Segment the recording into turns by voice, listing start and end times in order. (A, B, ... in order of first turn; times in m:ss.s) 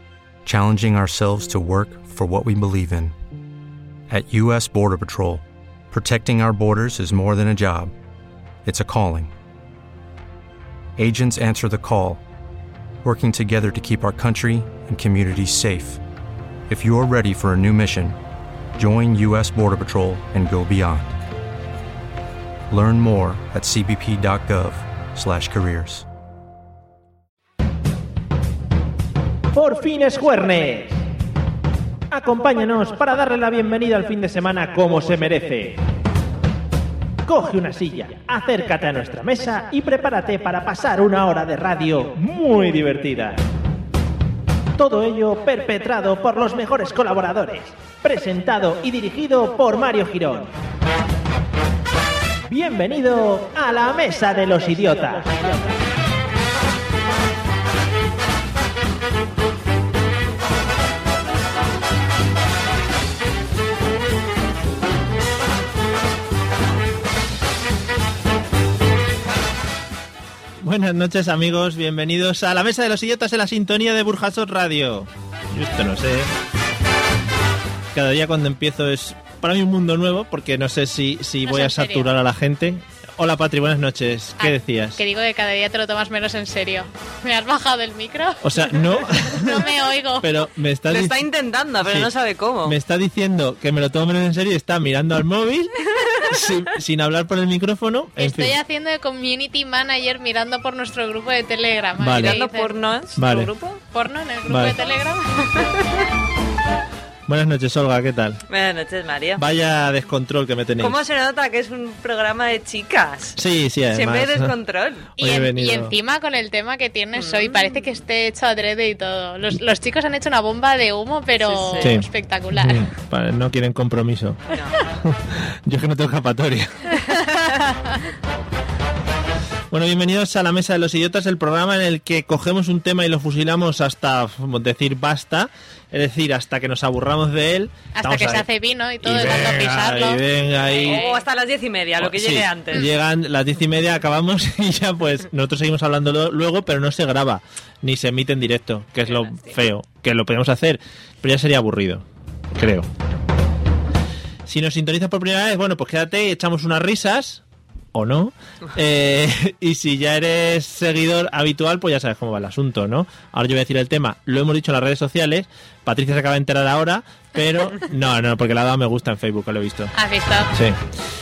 0:00.4-0:03.1 A
0:04.1-0:07.9 A
0:08.6-0:09.3 A
0:11.0-0:12.2 A
0:13.0-0:16.0 A
0:16.7-0:18.2 A
0:18.7-0:21.1 A
0:22.7-0:26.0 A
0:29.5-0:31.0 B
0:32.1-0:35.8 B
0:37.2-0:43.4 B
0:44.8-0:50.5 B
0:52.4-0:55.7 B
1:10.6-1:16.3 B
1:17.9-1:25.0 B
1:21.4-1:22.1 C
1:24.4-1:30.3 C
1:28.4-1:31.2 B
1:30.9-1:32.8 D
1:31.8-1:32.1 B
1:32.6-1:38.6 B
1:38.2-1:42.7 C
1:42.0-1:42.4 B
1:42.2-1:43.8 D
1:43.2-1:43.5 B
1:43.9-1:45.8 C
1:44.5-1:44.8 B
1:47.3-1:48.4 B
1:48.5-1:49.4 D
1:49.4-1:51.0 B
1:50.8-1:55.1 D
1:53.4-1:54.5 B
1:55.2-1:55.9 B
1:55.2-2:02.9 C
1:57.1-1:57.8 D
2:01.4-2:02.0 D
2:01.8-2:04.4 B
2:04.5-2:04.8 D
2:05.0-2:06.9 B
2:06.9-2:08.0 C
2:09.7-2:18.5 B
2:17.9-2:21.2 C
2:19.0-2:21.0 B
2:20.7-2:22.9 D
2:22.0-2:32.9 B
2:29.1-2:29.4 D
2:34.4-2:37.4 B
2:37.9-2:49.9 B
2:49.9-2:50.5 C
2:50.5-2:50.8 B